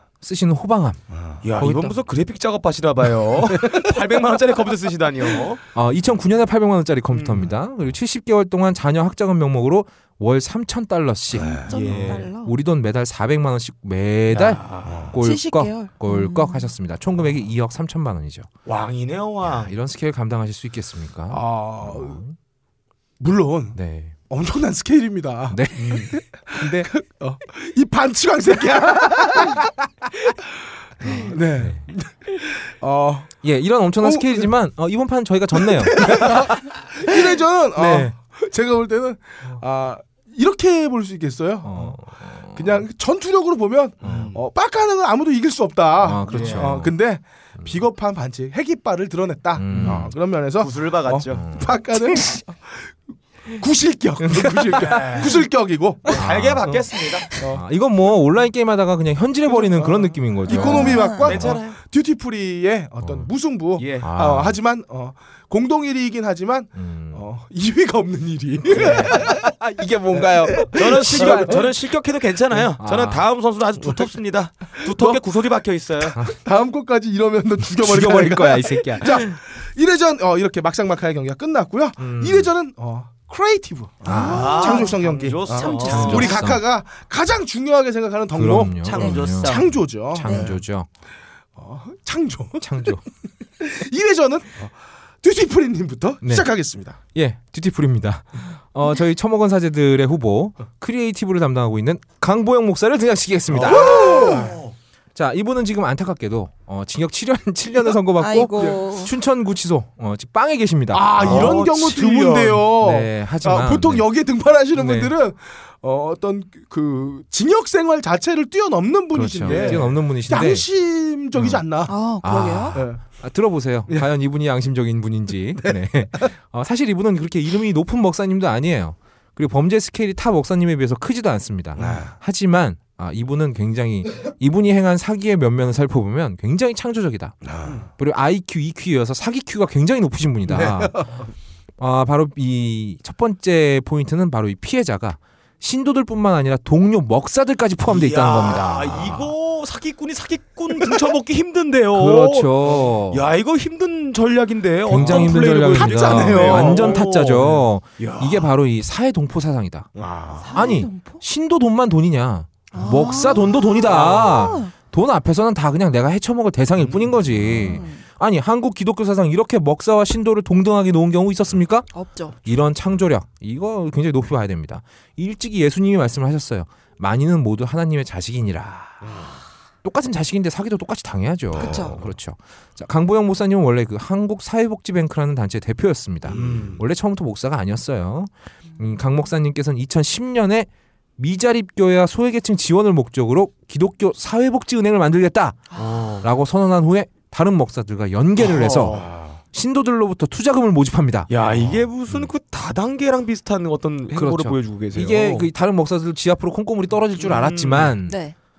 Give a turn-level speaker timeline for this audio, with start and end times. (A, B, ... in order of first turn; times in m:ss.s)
0:00.2-0:01.0 A
0:01.4-0:05.6 B
0:01.6-0:02.0 A
0:05.7-0:18.5 A
0:07.1-0:07.6 B
0:11.3-0:11.6 C
0:11.4-0:12.5 D
0:11.7-0:12.3 B
0:14.3-0:15.2 B
0:15.2-0:16.7 D
0:18.6-0:19.7 B
0:19.4-0:22.4 A
0:21.3-0:22.2 C
0:23.2-0:23.8 C
0:23.8-0:24.2 A
0:24.3-0:29.7 C
0:25.5-0:26.9 A
0:25.8-0:26.1 B
0:31.0-0:31.8 A
0:31.1-0:33.3 C
0:33.4-0:36.6 A
0:34.0-0:34.5 C
0:35.6-0:42.0 C
0:37.1-0:38.1 A
0:41.6-0:42.9 A
0:42.5-0:52.9 C
0:44.0-0:44.4 B
0:46.0-0:46.9 A
0:46.3-0:46.7 B
0:49.6-0:50.1 A
0:49.7-0:51.4 B
0:51.3-0:51.7 A
0:53.5-0:56.8 C
0:54.3-0:54.9 A
0:54.7-0:55.4 B
0:56.1-0:57.4 B
0:56.1-0:56.8 A
0:57.4-1:01.6 A
0:59.6-1:09.5 C
1:00.5-1:01.3 D
1:01.2-1:01.8 B
1:03.0-1:03.3 A
1:03.8-1:04.1 B
1:04.0-1:04.6 A
1:06.8-1:07.2 A
1:08.7-1:09.3 B
1:08.8-1:11.6 A
1:10.1-1:11.7 C
1:10.7-1:16.2 B
1:12.8-1:13.2 A
1:14.9-1:15.2 C
1:16.2-1:30.6 C
1:17.7-1:19.3 A
1:22.0-1:22.5 A
1:24.0-1:24.7 A
1:24.1-1:25.0 D
1:24.2-1:26.4 B
1:25.5-1:26.4 D
1:25.9-1:26.6 A
1:28.3-1:30.9 A
1:28.8-1:29.7 B
1:28.9-1:29.2 D
1:30.2-1:30.5 D
1:31.6-1:33.0 C
1:32.6-1:33.0 A
1:33.6-1:37.0 C
1:36.2-1:36.5 A
1:37.1-1:44.5 A
1:43.5-1:44.8 B
1:43.6-1:44.6 C
1:45.2-1:51.7 A
1:48.2-1:49.1 D
1:50.9-2:01.9 C
1:51.2-1:52.6 B
1:52.7-1:54.1 A
1:54.7-1:55.1 A
1:59.1-2:00.7 A
1:59.5-1:59.9 B
2:01.4-2:01.6 A
2:01.9-2:02.8 D
2:02.2-2:21.1 A
2:02.8-2:03.0 C
2:11.8-2:12.1 C
2:17.4-2:17.8 C
2:20.5-2:21.2 C
2:21.8-2:29.3 A
2:27.9-2:38.5 B
2:31.9-2:33.2 A
2:34.9-2:39.9 A
2:35.0-2:37.1 C
2:40.0-2:40.5 C
2:40.4-2:41.2 D
2:40.5-2:51.9 A
2:42.7-2:44.7 D
2:43.9-2:44.6 B
2:46.8-2:47.6 B
2:47.6-2:48.0 D
2:51.9-2:52.4 D
2:52.4-2:59.2 A
2:59.0-2:59.3 C
2:59.8-3:21.3 A
3:01.6-3:02.0 D
3:06.3-3:06.8 B
3:06.3-3:06.8 C
3:15.8-3:16.3 B
3:18.4-3:19.1 B
3:21.3-3:25.5 B
3:24.1-3:28.2 A
3:27.2-3:27.9 B
3:28.1-3:28.4 D